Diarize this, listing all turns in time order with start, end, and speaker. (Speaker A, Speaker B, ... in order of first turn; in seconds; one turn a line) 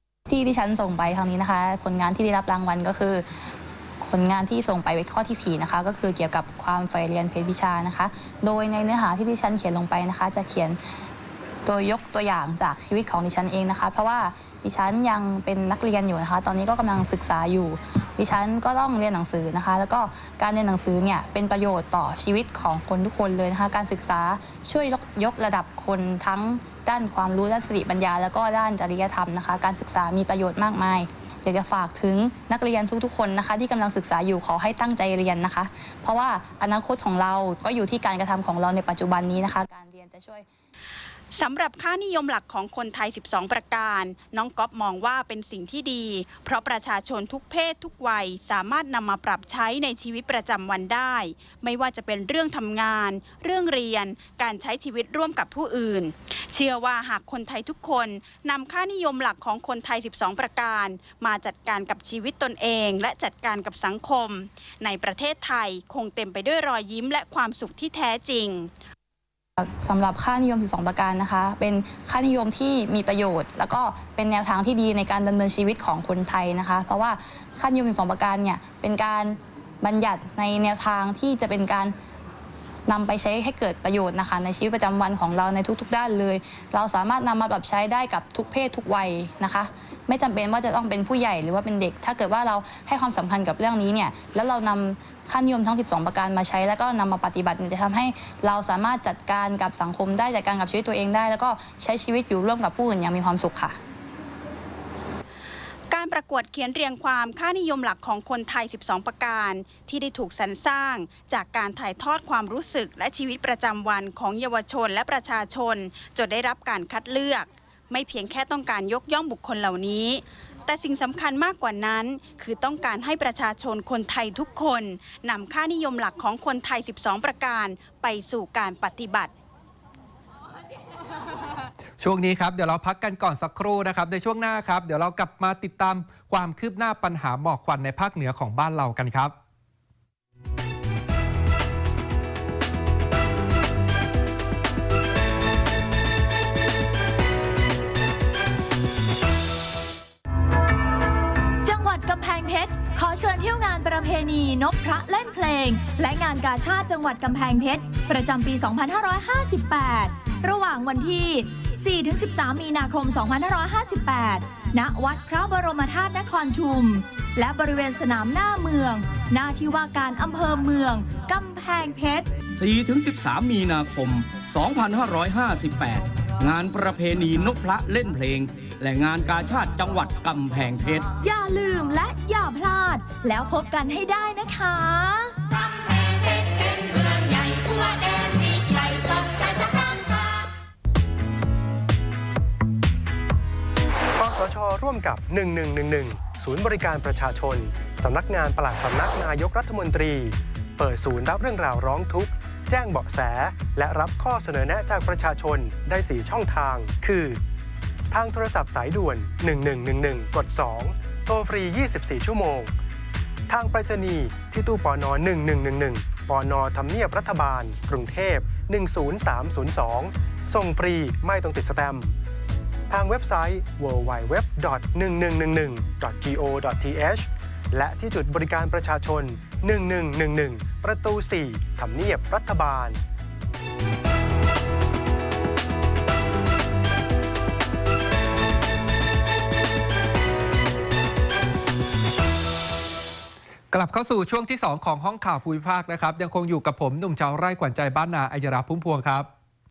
Speaker A: 0.3-10.8
Speaker A: 11.7-40.5
Speaker B: 41.3-68.7
Speaker A: 69.6-82.0
Speaker A: 82.9-103.8
Speaker B: 105.9-129.3
Speaker C: 132.0-139.3
Speaker D: 151.7-172.3
Speaker E: 172.5-181.1
Speaker D: 181.2-185.4
Speaker D: 186.7-190.0
Speaker F: 194.2-207.4
Speaker F: 208.1-212.7
Speaker F: 213.5-222.2
Speaker F: 222.9-233.0
Speaker C: 243.7-249.3